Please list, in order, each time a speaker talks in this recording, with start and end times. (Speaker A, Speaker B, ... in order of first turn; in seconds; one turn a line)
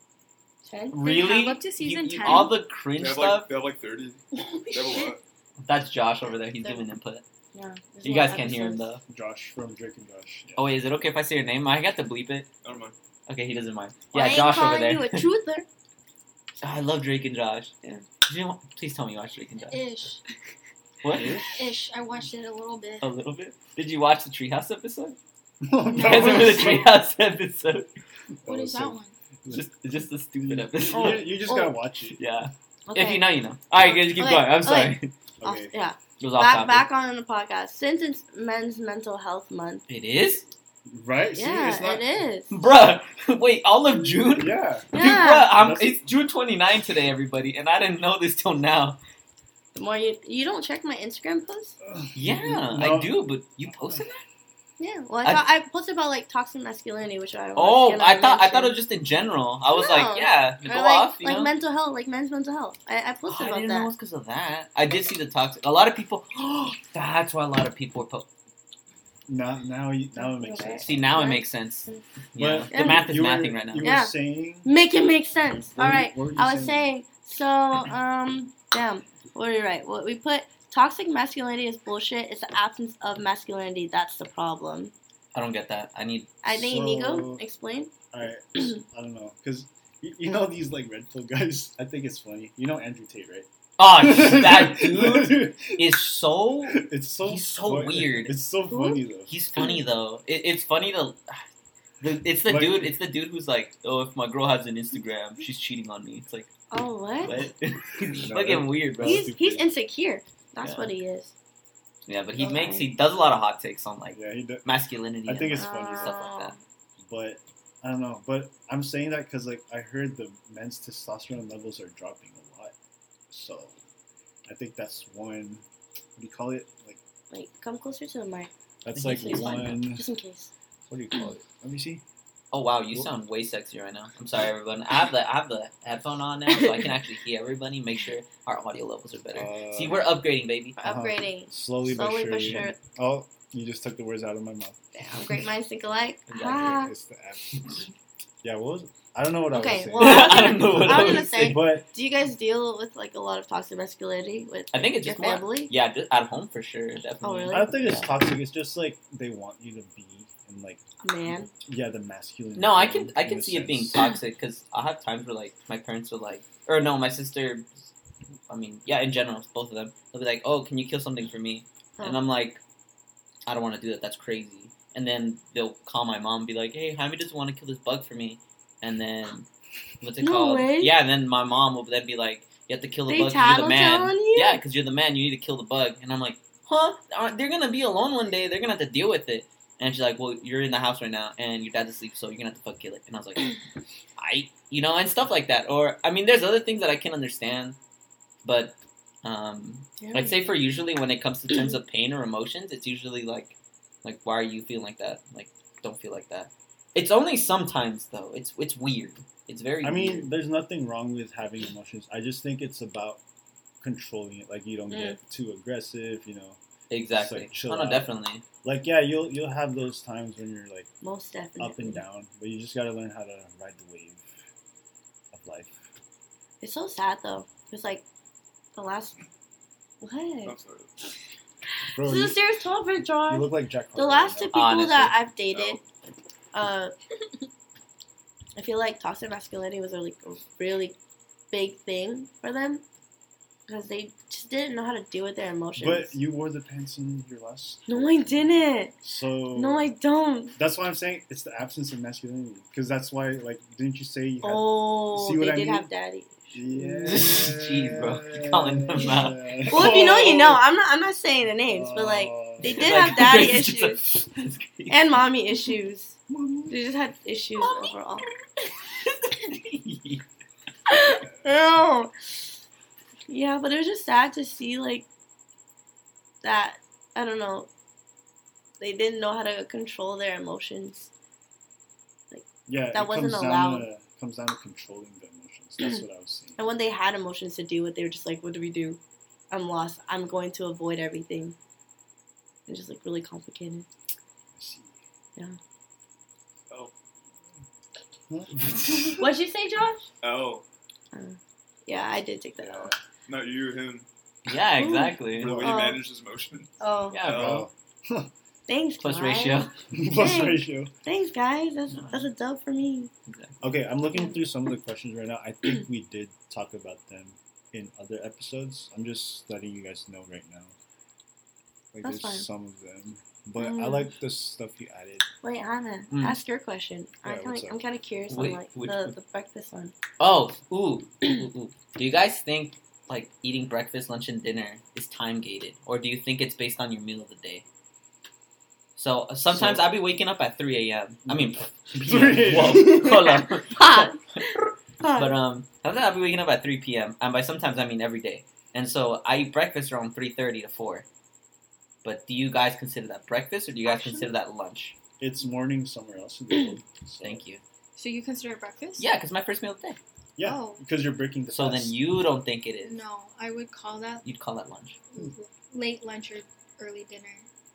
Speaker A: 0.6-1.0
Speaker B: 0.9-3.5
Speaker C: 1.0-2.5
Speaker D: 3.0-5.2
Speaker A: 4.4-5.1
Speaker B: 5.6-7.2
Speaker A: 7.5-8.9
Speaker B: 8.0-9.0
Speaker E: 9.1-10.7
Speaker B: 10.6-12.5
Speaker D: 12.6-12.9
Speaker B: 13.3-15.2
Speaker A: 14.1-15.7
Speaker B: 16.6-17.7
Speaker B: 18.2-19.9
Speaker C: 19.7-20.2
Speaker B: 21.0-21.4
Speaker E: 21.1-21.8
Speaker C: 21.4-23.1
Speaker B: 23.0-25.2
Speaker E: 25.6-26.9
Speaker B: 25.9-27.9
Speaker C: 25.9-26.9
Speaker E: 28.4-29.6
Speaker C: 28.4-29.1
Speaker B: 29.5-31.3
Speaker E: 30.5-32.2
Speaker A: 30.9-31.8
Speaker B: 32.2-35.1
Speaker A: 32.9-33.2
Speaker A: 33.8-39.8
Speaker E: 35.4-35.7
Speaker B: 36.2-36.9
Speaker B: 39.9-40.5
Speaker E: 40.9-42.1
Speaker A: 41.3-42.6
Speaker B: 42.5-49.0
Speaker E: 44.3-46.0
Speaker A: 44.9-45.5
Speaker A: 49.7-51.8
Speaker E: 51.8-53.2
Speaker B: 52.1-54.2
Speaker A: 54.8-58.8
Speaker B: 57.5-61.5
Speaker A: 59.7-63.9
Speaker B: 63.3-68.3
Speaker E: 69.3-71.1
Speaker A: 70.2-72.0
Speaker B: 70.8-73.9
Speaker E: 72.4-74.7
Speaker A: 72.7-73.1
Speaker A: 73.8-74.1
Speaker A: 74.6-84.9
Speaker E: 75.8-76.9
Speaker B: 85.3-86.3
Speaker A: 86.4-87.9
Speaker E: 86.5-87.4
Speaker E: 88.1-96.1
Speaker B: 93.8-98.3
Speaker E: 96.7-99.3
Speaker A: 98.7-99.0
Speaker B: 99.3-101.4
Speaker B: 102.0-106.5
Speaker E: 102.4-102.9
Speaker A: 106.7-107.3
Speaker B: 107.2-109.3
Speaker E: 108.0-109.7
Speaker A: 109.0-111.3
Speaker B: 110.6-110.9
Speaker B: 112.1-116.5
Speaker A: 112.4-112.8
Speaker E: 114.1-114.6
Speaker E: 115.2-116.2
Speaker A: 115.5-116.6
Speaker E: 117.0-122.7
Speaker E: 123.3-123.8
Speaker E: 124.5-125.6
Speaker E: 126.2-127.0
Speaker A: 127.3-130.5
Speaker E: 128.8-130.1
Speaker B: 128.9-129.8
Speaker E: 130.9-132.0
Speaker B: 132.5-140.8
Speaker E: 139.3-140.1
Speaker A: 140.8-142.8
Speaker E: 140.8-144.8
Speaker A: 144.9-146.9
Speaker B: 146.3-146.8
Speaker E: 146.5-147.8
Speaker E: 148.4-151.8
Speaker A: 149.5-155.7
Speaker B: 150.0-151.7
Speaker B: 154.7-158.1
Speaker A: 157.2-158.0
Speaker E: 157.5-160.8
Speaker A: 161.0-161.5
Speaker E: 161.7-164.1
Speaker B: 162.6-167.9
Speaker B: 168.5-172.6
Speaker B: 173.4-179.5
Speaker B: 180.0-193.5
Speaker A: 180.2-180.9
Speaker A: 183.1-184.6
Speaker B: 194.2-197.8
Speaker B: 198.4-210.3
Speaker A: 200.0-200.3
Speaker E: 209.8-213.2
Speaker E: 213.8-216.6
Speaker A: 214.9-215.2
Speaker B: 216.9-218.4
Speaker E: 217.1-220.9
Speaker A: 221.0-222.0
Speaker E: 221.6-224.3
Speaker E: 225.3-225.8
Speaker A: 226.6-228.0
Speaker A: 228.7-229.2
Speaker A: 230.0-230.5
Speaker D: 230.4-230.9
Speaker E: 231.9-232.4
Speaker A: 232.0-235.8
Speaker E: 233.3-234.5
Speaker B: 234.5-235.2
Speaker D: 235.5-235.8
Speaker A: 236.5-236.9
Speaker A: 238.6-240.9
Speaker A: 241.5-242.8
Speaker A: 243.7-246.2
Speaker E: 245.8-248.2
Speaker A: 247.9-248.9
Speaker E: 249.0-249.8
Speaker A: 249.5-250.5
Speaker E: 250.6-255.9
Speaker A: 254.4-257.2
Speaker E: 256.5-260.6
Speaker B: 257.0-259.6
Speaker A: 259.6-264.0
Speaker E: 261.7-263.3
Speaker B: 262.7-265.1
Speaker A: 264.9-266.2
Speaker E: 266.3-266.6
Speaker A: 266.7-268.3
Speaker B: 269.0-270.2
Speaker A: 270.9-272.1
Speaker A: 273.3-275.1
Speaker A: 276.4-277.7
Speaker A: 278.8-281.1
Speaker A: 282.3-283.9
Speaker E: 282.7-286.6
Speaker A: 286.6-289.0
Speaker A: 289.5-291.6
Speaker A: 292.7-293.9
Speaker E: 294.5-294.9
Speaker E: 298.3-299.1
Speaker A: 299.2-300.1
Speaker D: 300.2-300.6
Speaker A: 301.1-302.9
Speaker E: 302.6-302.9
Speaker D: 303.3-304.0
Speaker B: 304.4-305.6
Speaker A: 304.8-306.0
Speaker D: 305.4-307.7
Speaker E: 305.4-305.7
Speaker A: 306.8-307.2
Speaker B: 307.1-307.6
Speaker E: 307.3-308.3
Speaker A: 308.7-313.1
Speaker B: 309.0-309.7
Speaker E: 309.9-310.9
Speaker B: 311.9-312.3
Speaker B: 313.3-313.6
Speaker E: 313.6-320.7
Speaker E: 321.9-325.2
Speaker A: 322.0-322.4
Speaker A: 323.6-324.1
Speaker A: 325.4-329.9
Speaker B: 326.1-326.4
Speaker E: 327.2-327.8
Speaker B: 328.3-329.1
Speaker B: 330.2-337.6
Speaker B: 338.9-344.2
Speaker E: 339.5-339.9
Speaker E: 341.2-343.0
Speaker A: 342.6-345.3
Speaker B: 345.1-351.0
Speaker B: 352.0-354.9
Speaker C: 353.9-354.3
Speaker E: 355.2-357.4
Speaker B: 357.2-357.6
Speaker C: 357.9-359.1
Speaker B: 359.0-360.0
Speaker E: 360.4-362.0
Speaker C: 360.4-360.8
Speaker B: 361.5-363.0
Speaker C: 362.8-364.2
Speaker B: 364.2-365.0
Speaker C: 365.1-367.5